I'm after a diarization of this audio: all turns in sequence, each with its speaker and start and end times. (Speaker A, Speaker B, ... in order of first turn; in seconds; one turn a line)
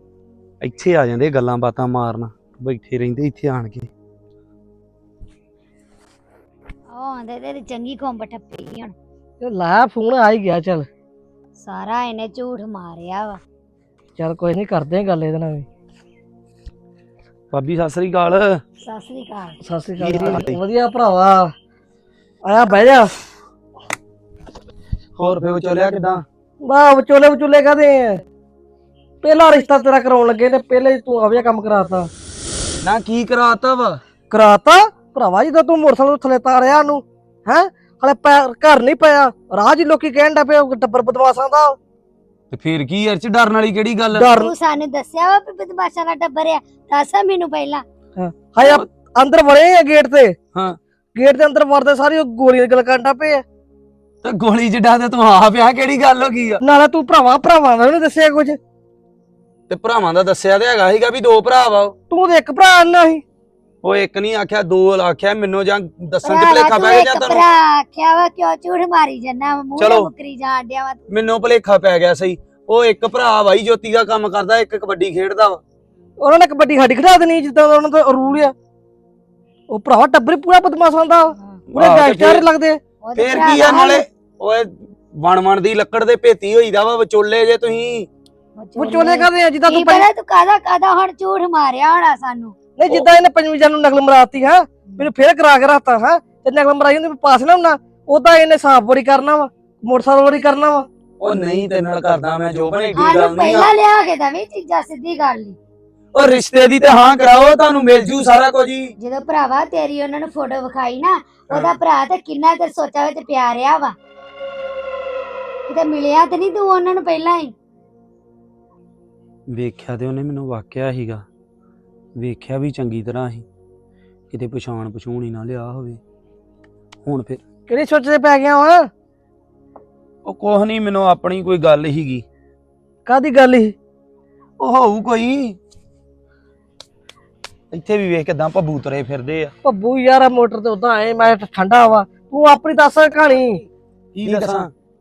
Speaker A: 0.6-3.9
Speaker B: 6.9-8.9
Speaker C: 9.4-10.9
Speaker B: 11.6-13.4
Speaker C: 14.2-15.7
Speaker A: 17.5-18.6
Speaker B: 18.8-19.6
Speaker C: 19.6-21.5
Speaker A: 20.0-20.6
Speaker C: 22.4-23.1
Speaker A: 25.2-26.2
Speaker C: 26.6-28.2
Speaker C: 29.2-32.1
Speaker A: 32.8-34.0
Speaker C: 34.3-41.8
Speaker A: 42.5-44.4
Speaker C: 44.1-44.5
Speaker B: 44.3-47.8
Speaker C: 48.1-50.4
Speaker C: 51.1-53.4
Speaker A: 54.2-56.6
Speaker C: 56.6-58.6
Speaker A: 59.7-61.9
Speaker C: 62.1-63.2
Speaker A: 63.8-67.5
Speaker B: 66.2-71.0
Speaker A: 69.8-70.1
Speaker A: 71.1-75.6
Speaker C: 76.2-78.5
Speaker C: 79.7-82.8
Speaker A: 81.7-82.5
Speaker B: 83.0-84.0
Speaker A: 83.2-88.1
Speaker B: 88.6-92.5
Speaker C: 88.7-90.1
Speaker C: 92.8-100.8
Speaker A: 101.2-103.7
Speaker B: 102.9-105.6
Speaker A: 106.1-108.9
Speaker B: 109.0-113.9
Speaker B: 115.7-117.5
Speaker A: 119.5-121.2
Speaker A: 122.2-123.4
Speaker A: 124.3-126.0
Speaker A: 127.0-127.4
Speaker C: 127.7-128.8
Speaker A: 130.2-132.2
Speaker C: 133.1-133.7
Speaker A: 134.6-135.6
Speaker A: 137.7-139.5
Speaker C: 139.6-143.6
Speaker A: 144.1-144.7